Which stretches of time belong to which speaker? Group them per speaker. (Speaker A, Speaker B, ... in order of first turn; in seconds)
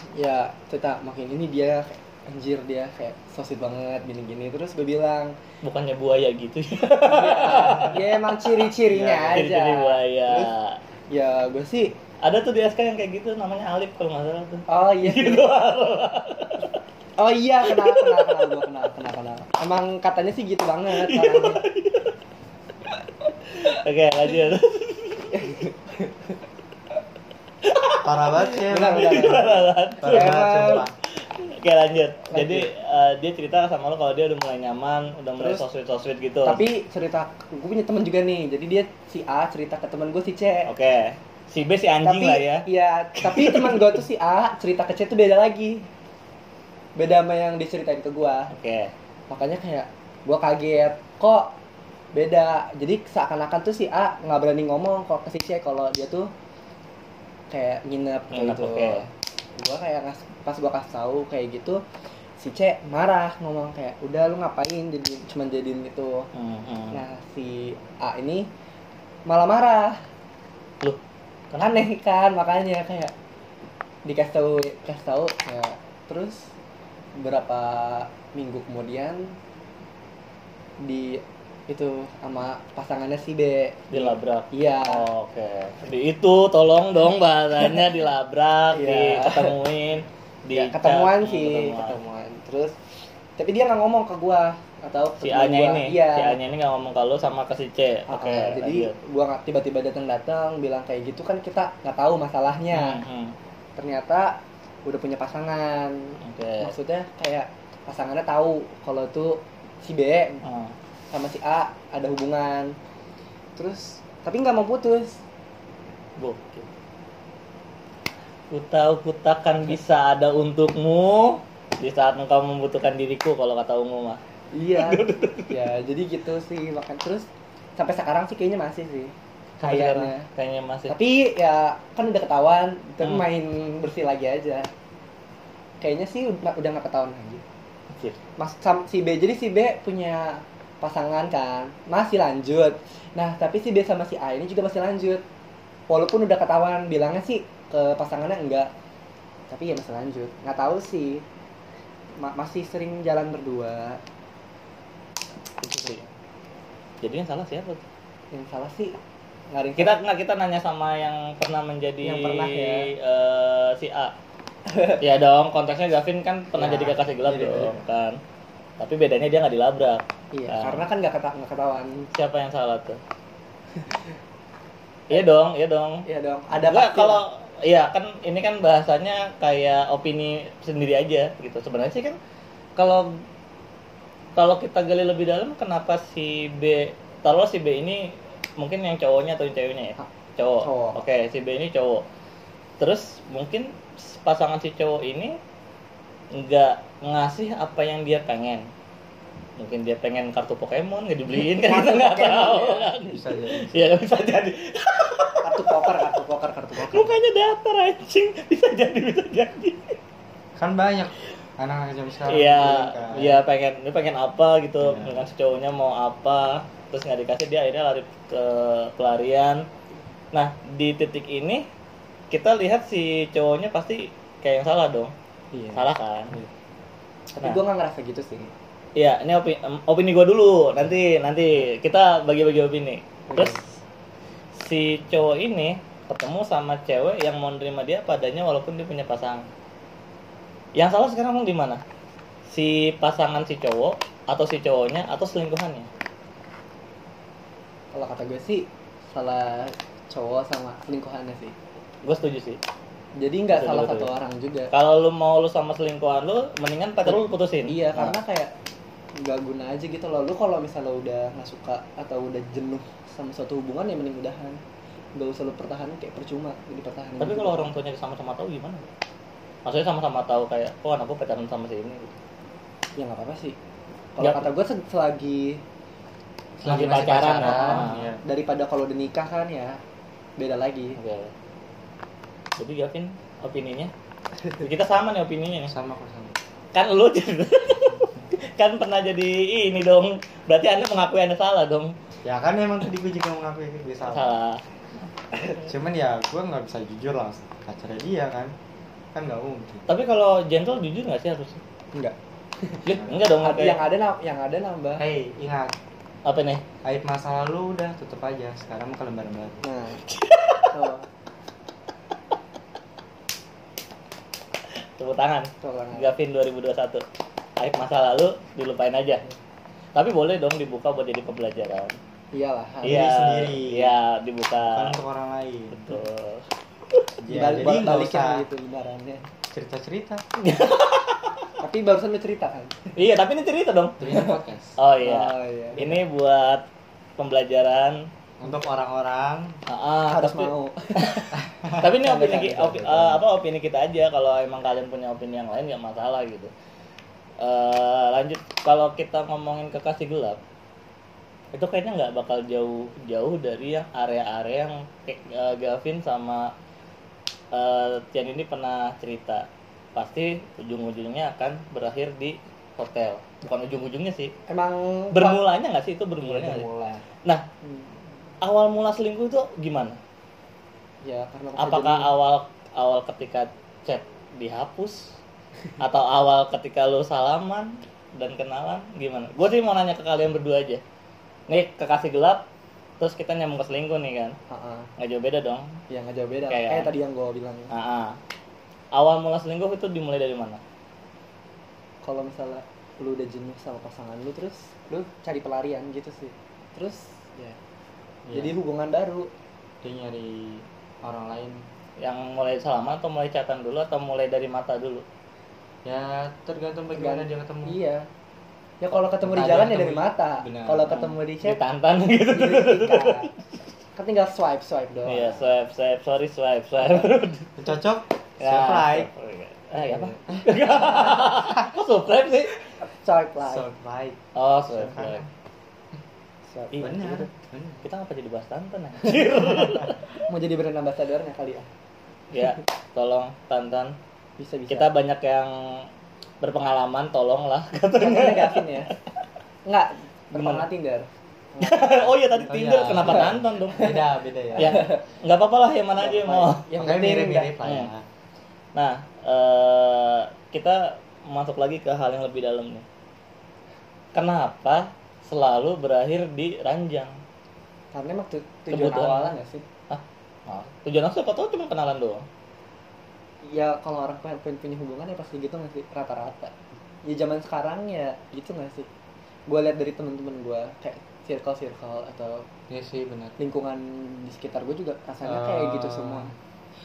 Speaker A: 0.1-5.3, 7.0-10.5, 11.1-11.9, 14.7-15.5, 17.2-21.6, 25.3-26.3, 28.6-30.8, 32.3-32.7, 35.4-35.6, 36.4-40.7, 42.0-45.9, 47.0-48.5, 49.3-51.5, 52.1-56.3, 57.5-61.8, 62.4-66.3, 66.9-68.5, 69.2-70.0, 71.6-73.1, 74.0-76.5, 77.2-79.3, 80.8-85.0, 88.7-89.5, 90.5-92.8, 93.4-96.4, 98.1-103.0, 103.8-110.4, 111.1-112.7, 113.5-115.2, 124.5-130.3, 130.9-134.7, 135.8-137.4, 138.4-145.2, 145.9-148.7, 149.5-151.2, 152.2-154.0, 158.3-159.0, 159.5-160.0, 162.0-162.9, 164.7-165.0, 166.6-166.9, 170.3-172.1, 176.0-177.2, 190.6-191.0, 201.3-202.9, 205.4-207.1, 225.5-225.8, 227.3-228.5, 233.3-233.6, 247.9-251.6, 253.2-254.7, 257.1-258.5, 259.2-264.6, 265.1-267.7, 273.0-273.6, 274.1-275.6, 276.7-279.8, 280.4-281.0, 301.9-305.0, 309.6-310.1, 310.7-311.1, 315.6-316.1, 322.3-323.1, 327.3-329.2, 331.6-332.9, 335.0-336.0, 340.1-341.3, 342.0-343.1, 364.5-365.4, 366.2-367.1, 367.6-367.9, 371.0-372.1, 384.5-384.9, 385.9-387.7, 392.0-397.6, 398.3-399.3, 406.9-408.1, 408.8-411.6, 412.3-413.3, 413.9-415.5, 422.8-423.6, 426.5-427.3, 430.3-431.7, 434.4-434.9, 438.0-438.9, 439.6-442.4, 443.0-444.0, 444.5-445.0, 446.0-447.5, 457.9-459.6, 463.4-468.9, 469.5-472.4, 473.4-476.3
Speaker B: 5.6-8.7, 9.3-10.8, 12.2-16.7, 17.7-18.5, 20.9-22.1, 23.5-25.4, 27.6-36.6, 40.7-42.6, 43.2-44.0, 48.5-48.9, 58.3-59.0, 66.3-67.0, 71.5-71.8, 83.9-91.9, 95.2-98.9, 102.7-103.3, 106.2-106.7, 110.4-110.7, 116.2-116.7, 118.5-124.2, 124.8-125.5, 129.6-130.9, 137.9-138.2, 155.6-156.0, 157.0-157.8, 159.8-164.1, 165.0-168.2, 168.8-170.8, 172.1-173.0, 175.1-182.2, 182.8-183.2, 184.3-192.0, 192.8-195.4, 196.3-198.7, 199.6-206.0, 206.8-209.9, 212.3-219.7, 220.3-221.7, 222.3-225.1, 225.7-226.4, 228.9-233.6, 234.5-239.4, 240.8-241.8, 242.5-245.9, 252.0-252.6, 253.5-254.1, 254.7-258.1, 267.2-268.9, 269.6-272.1, 274.2-274.5, 276.6-278.1, 281.0-281.3, 282.6-283.9, 284.5-285.7, 286.7-291.9, 294.0-294.6, 299.9-301.6, 302.9-303.8, 306.2-306.6, 310.1-310.7, 314.8-317.0, 317.6-319.2, 319.9-322.0, 322.8-325.0, 325.7-327.0, 330.4-331.4, 332.9-336.6, 337.2-338.0, 339.7-346.5, 347.4-350.4, 351.5-356.5, 357.5-364.3, 365.1-366.7, 368.4-370.0, 371.6-375.1, 375.8-380.8, 381.5-382.4, 383.0-384.4, 385.0-385.8, 386.5-386.9, 387.7-388.2, 388.9-390.6, 402.0-405.0, 410.9-413.4, 415.1-417.5, 418.4-422.6, 424.3-425.2, 427.8-430.0, 432.3-434.0, 434.7-435.9, 436.4-438.8, 440.3-440.6, 441.6-443.9, 444.6-446.6, 447.6-447.9, 448.7-452.9, 454.1-457.2, 458.7-459.3, 459.9-462.2
Speaker C: 8.9-9.4, 28.0-29.4, 30.0-30.9, 167.2-167.8, 203.0-203.9, 210.6-213.4, 214.8-215.2, 276.6-278.2, 285.7-286.4, 292.2-294.4, 295.6-298.5, 299.1-299.9, 302.9-303.2, 305.0-305.7, 306.8-309.6, 322.8-323.9, 324.6-325.9, 327.2-328.4, 329.5-330.2, 334.0-334.8, 338.4-339.6, 341.4-342.2, 342.8-343.1, 398.2-398.6, 399.8-401.6, 405.8-407.8, 409.2-410.9, 417.6-419.1, 419.9-421.6, 423.4-425.3, 426.8-427.8, 442.5-444.8, 446.8-448.0, 472.7-473.4, 475.2-476.3